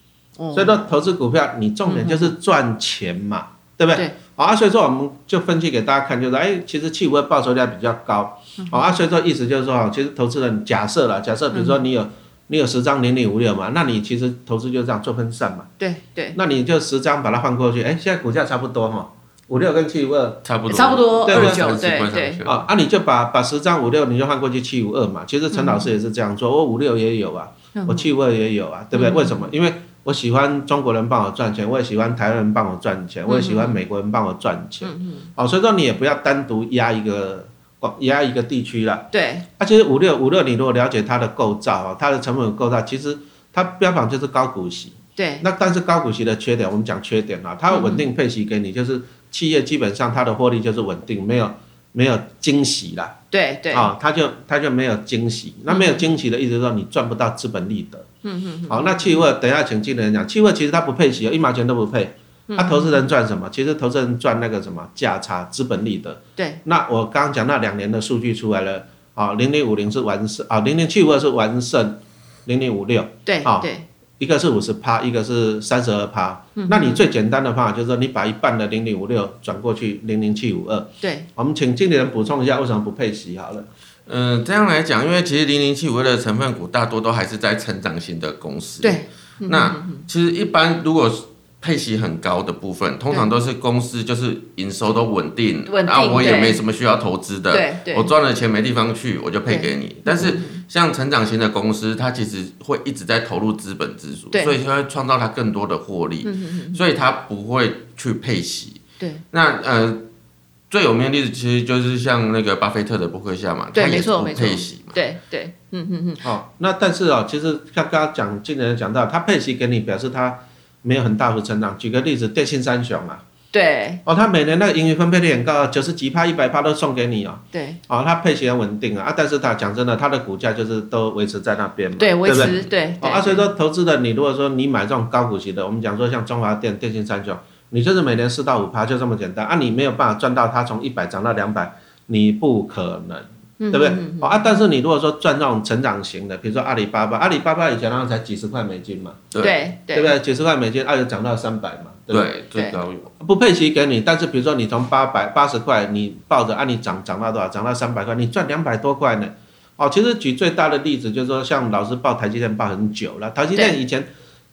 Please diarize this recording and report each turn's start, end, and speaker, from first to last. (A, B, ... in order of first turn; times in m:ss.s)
0:00.4-0:00.8 A
0:00.5-0:15.7 B
0:01.9-0:02.3 A
0:11.5-0:11.8 A
0:15.8-0:16.4 A
0:16.4-0:20.5 B
0:20.4-0:22.6 C
0:20.7-0:22.4 A
0:21.3-0:21.6 B
0:22.4-0:53.2 B
0:25.5-0:25.9 A
0:27.7-0:28.1 A
0:28.9-0:29.4 A
0:33.3-0:33.8 A
0:34.8-0:35.3 A
0:39.1-0:39.5 A
0:45.2-0:45.4 A
0:47.7-0:48.0 A
0:53.3-0:53.9 A
0:53.7-0:58.1 B
0:55.7-0:56.0 A
0:58.2-0:59.3 A
0:58.7-1:23.7 B
1:02.5-1:03.1 A
1:13.3-1:13.9 A
1:16.6-1:17.0 A
1:21.0-1:21.3 A
1:24.1-1:48.8 C
1:28.8-1:30.1 A
1:35.7-1:36.6 A
1:37.5-1:38.1 A
1:39.5-1:40.6 A
1:46.2-1:46.8 A
1:49.3-1:50.1 C
1:50.7-1:55.0 C
1:53.7-1:56.2 A
1:56.2-2:03.2 B
2:03.5-2:04.0 A
2:04.1-2:29.3 B
2:07.5-2:07.8 A
2:12.0-2:13.5 A
2:23.6-2:24.5 A
2:29.4-2:30.1 A
2:29.9-2:32.3 B
2:32.1-2:33.1 C
2:33.2-2:44.1 B